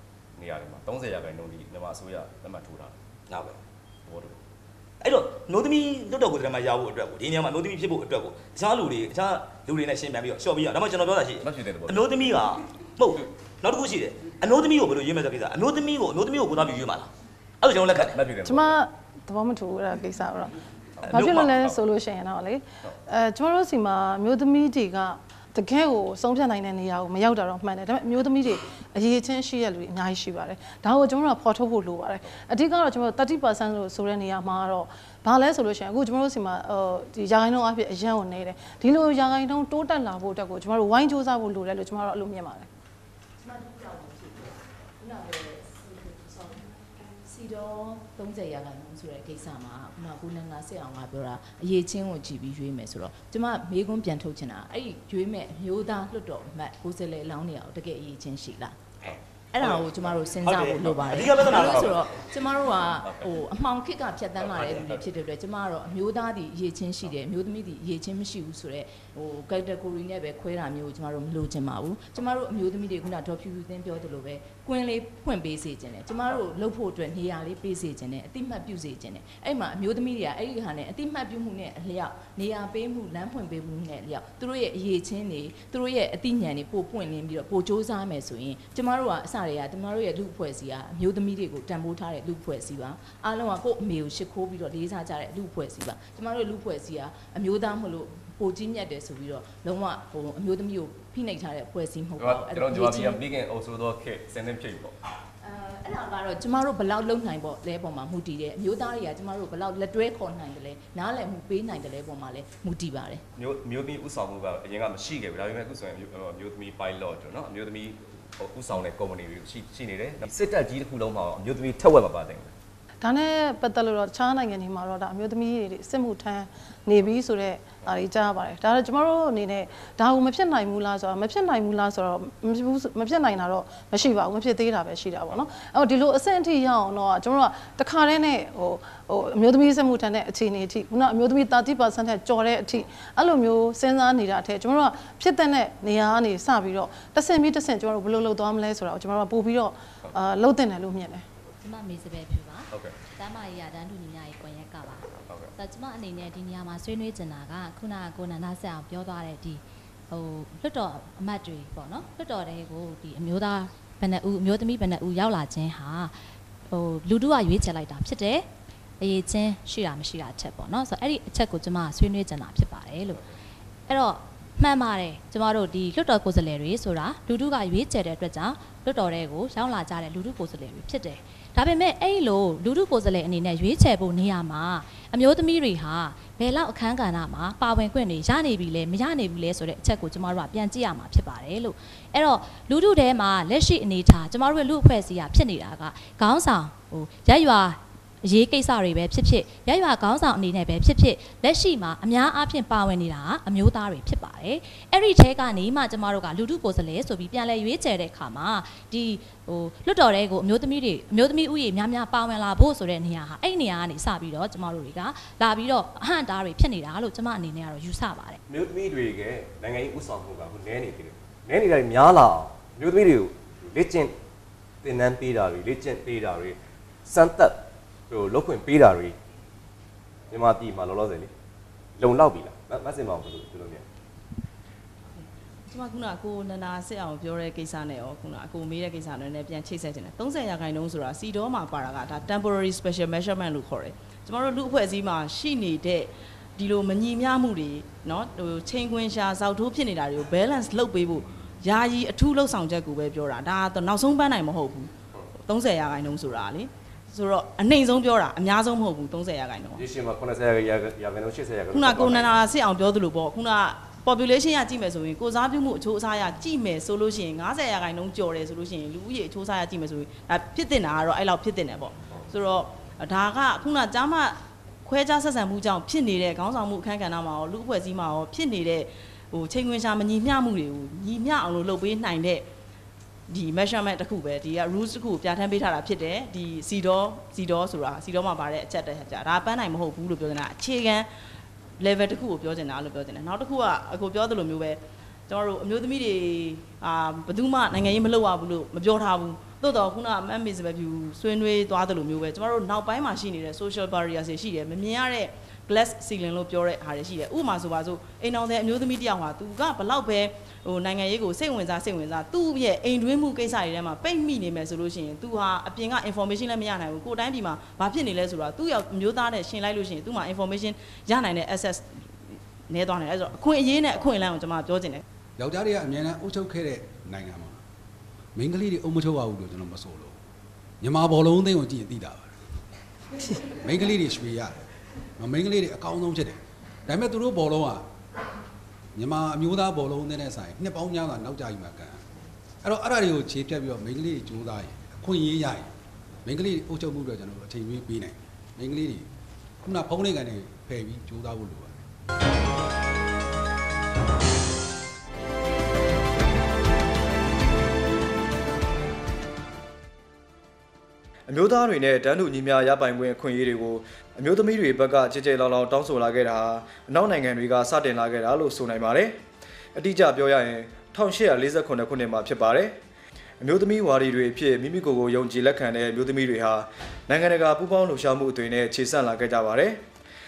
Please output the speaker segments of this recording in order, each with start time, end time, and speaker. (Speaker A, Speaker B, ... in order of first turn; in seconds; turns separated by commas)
Speaker A: 0.3-2.9, Speaker B: 3.3-3.5, Speaker A: 4.1-4.4, Speaker B: 5.0-17.1, Speaker A: 11.4-12.1, Speaker B: 17.7-18.0, Speaker A: 17.9-18.8, Speaker C: 18.4-20.5, Speaker C: 21.1-42.7, Speaker D: 43.4-58.8, Speaker D: 59.5-103.2, Speaker B: 61.2-61.9, Speaker A: 61.5-61.9, Speaker A: 63.0-63.3, Speaker A: 64.4-65.1, Speaker A: 102.2-105.0, Speaker D: 105.4-113.2, Speaker A: 113.3-122.5, Speaker C: 123.0-151.2, Speaker E: 151.6-166.2, Speaker E: 166.7-168.4, Speaker E: 169.0-173.2, Speaker E: 173.9-218.4, Speaker A: 218.5-224.1, Speaker A: 224.8-229.1, Speaker A: 230.3-231.3, Speaker A: 232.0-233.8, Speaker F: 235.2-254.9, Speaker F: 255.4-259.8, Speaker A: 259.7-262.4, Speaker F: 261.7-282.4, Speaker F: 283.3-291.1, Speaker F: 291.8-325.0, Speaker G: 325.4-327.6, Speaker G: 328.3-330.1, Speaker G: 330.8-332.3, Speaker G: 333.6-334.5, Speaker G: 335.2-337.8, Speaker G: 338.9-342.0, Speaker G: 342.6-345.7, Speaker G: 346.2-349.1, Speaker G: 349.6-351.8, Speaker H: 361.3-369.2, Speaker H: 369.7-372.8, Speaker H: 373.4-379.8